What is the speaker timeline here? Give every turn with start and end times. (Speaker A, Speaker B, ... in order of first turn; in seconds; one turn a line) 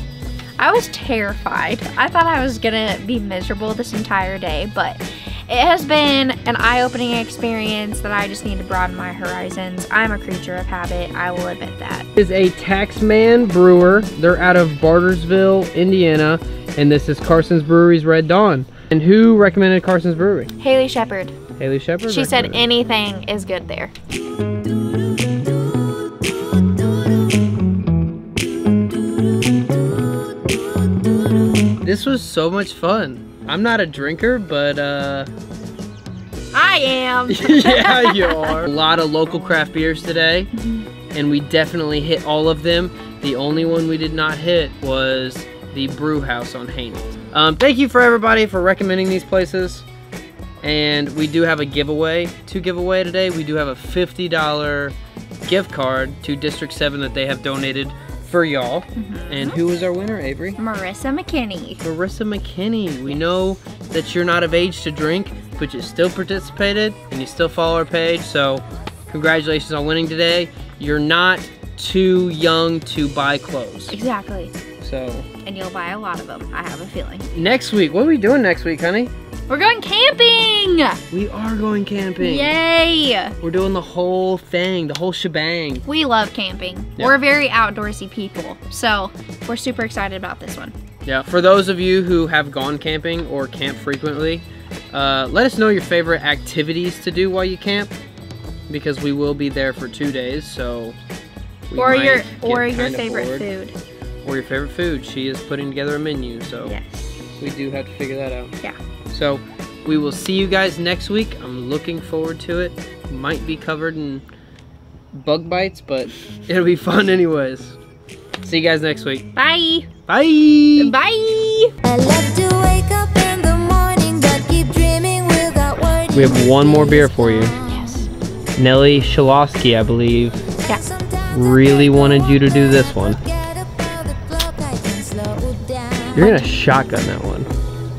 Speaker A: 0.6-12.1
Speaker B: 12.2-20.5
Speaker A: 20.6-21.4
Speaker B: 21.6-22.6
Speaker A: 22.1-23.9
Speaker B: 31.8-35.3
Speaker A: 36.5-38.6
Speaker B: 37.3-40.5
Speaker A: 40.6-40.9
Speaker B: 41.1-49.8
Speaker B: 50.6-60.6
Speaker A: 59.0-59.6
Speaker A: 60.6-61.8
Speaker B: 61.8-74.0
Speaker A: 73.9-74.5
Speaker B: 74.8-75.3
Speaker A: 75.4-77.3
Speaker B: 77.3-79.1
Speaker A: 79.5-81.0
Speaker B: 81.1-82.5
Speaker A: 82.2-83.3
Speaker B: 83.4-85.8
Speaker A: 85.8-90.7
Speaker B: 91.0-97.9
Speaker B: 98.7-101.0
Speaker B: 101.7-103.5
Speaker A: 101.8-103.8
Speaker B: 104.2-106.8
Speaker A: 106.6-107.2
Speaker B: 107.4-108.5
Speaker B: 109.1-114.2
Speaker B: 115.1-117.8
Speaker B: 118.4-119.3
Speaker A: 119.3-119.9
Speaker B: 120.1-120.9
Speaker A: 120.8-121.7
Speaker C: 121.8-127.9
Speaker B: 126.1-127.5
Speaker A: 127.7-128.1
Speaker B: 128.6-130.4
Speaker C: 130.7-136.4
Speaker B: 131.3-133.2
Speaker B: 136.1-137.5